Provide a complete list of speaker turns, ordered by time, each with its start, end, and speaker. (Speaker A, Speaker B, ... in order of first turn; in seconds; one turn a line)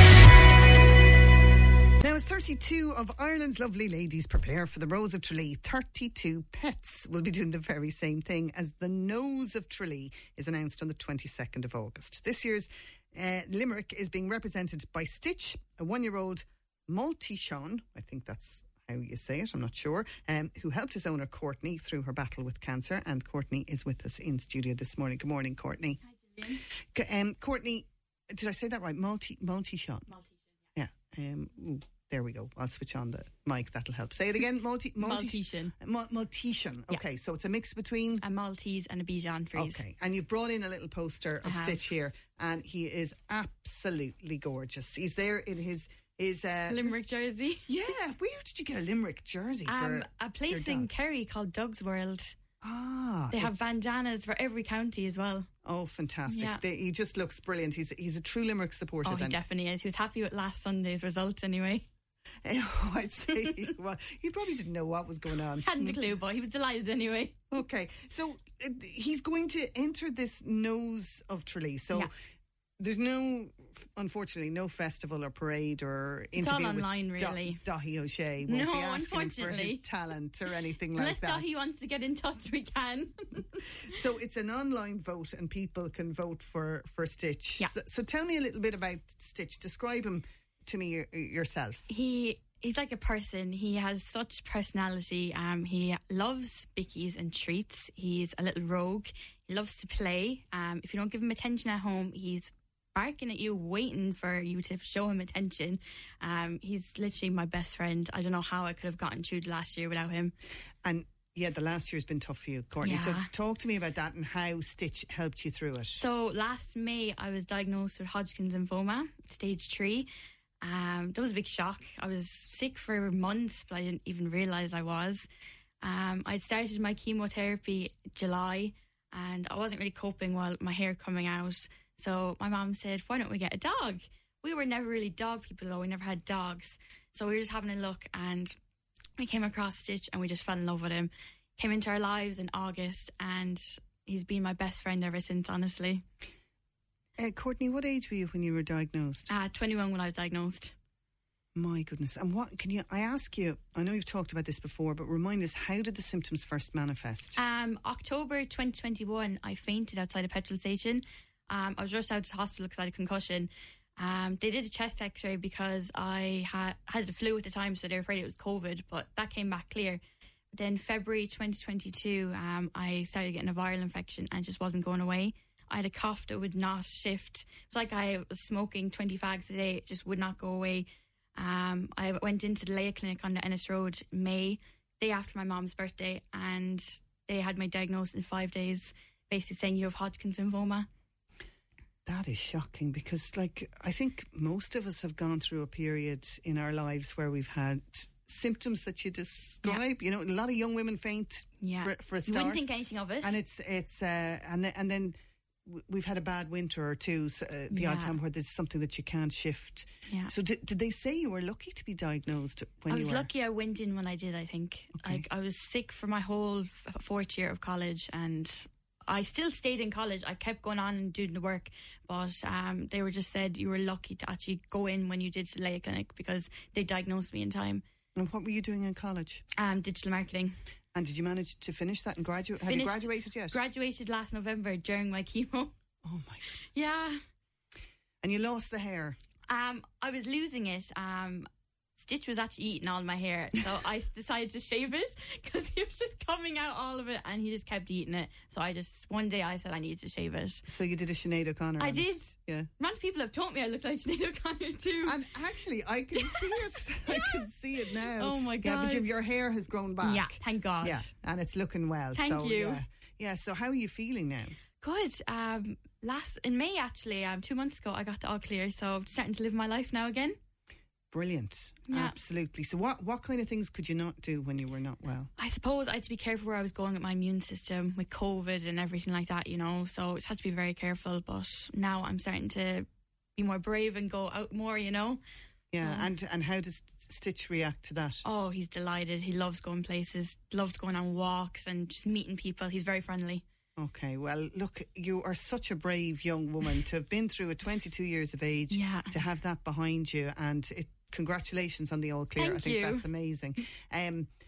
Speaker A: 2.0-26.0
Speaker B: 26.2-26.6
Speaker A: 26.9-30.1
Speaker B: 30.1-30.4
Speaker A: 30.8-38.2
Speaker B: 35.0-35.7
Speaker B: 38.2-39.8
Speaker A: 39.5-46.9
Speaker B: 41.4-41.8
Speaker B: 46.7-47.6
Speaker A: 47.7-50.9
Speaker B: 49.6-52.3
Speaker A: 52.6-53.5
Speaker B: 53.3-55.5
Speaker A: 55.6-59.4
Speaker B: 56.3-56.6
Speaker B: 59.0-61.9
Speaker A: 62.4-66.0
Speaker B: 63.3-63.7
Speaker B: 65.6-67.3
Speaker A: 67.5-72.1
Speaker A: 72.8-81.5
Speaker B: 76.3-77.6
Speaker B: 78.4-79.8
Speaker B: 80.9-83.6
Speaker A: 83.8-91.9
Speaker B: 91.9-110.3
Speaker A: 110.8-116.0
Speaker B: 112.8-113.3
Speaker B: 115.9-120.1
Speaker B: 120.6-125.2
Speaker B: 125.8-138.5
Speaker B: 139.2-146.0
Speaker A: 147.2-149.3
Speaker B: 149.3-150.7
Speaker A: 151.5-157.4
Speaker B: 157.3-170.0
Speaker B: 170.5-190.9
Speaker A: 192.0-202.7
Speaker B: 201.6-203.4
Speaker A: 203.2-213.3
Speaker B: 207.7-208.2
Speaker B: 210.1-210.3
Speaker B: 212.9-227.8
Speaker A: 214.9-215.2
Speaker A: 228.2-229.4
Speaker B: 229.5-230.5
Speaker A: 230.9-233.6
Speaker B: 232.6-235.7
Speaker A: 236.0-236.5
Speaker B: 236.6-237.2
Speaker A: 238.2-239.2
Speaker B: 239.5-250.7
Speaker A: 250.7-252.7
Speaker B: 251.8-255.2
Speaker A: 255.0-264.6
Speaker B: 256.1-257.4
Speaker B: 258.1-259.1
Speaker B: 260.0-261.1
Speaker B: 262.1-262.8
Speaker B: 264.8-270.4
Speaker A: 271.1-275.3
Speaker B: 271.9-272.1
Speaker B: 275.4-285.2
Speaker A: 285.7-288.2
Speaker B: 285.8-286.1
Speaker B: 288.2-293.4
Speaker A: 293.8-304.3
Speaker B: 298.7-299.1
Speaker B: 302.3-303.1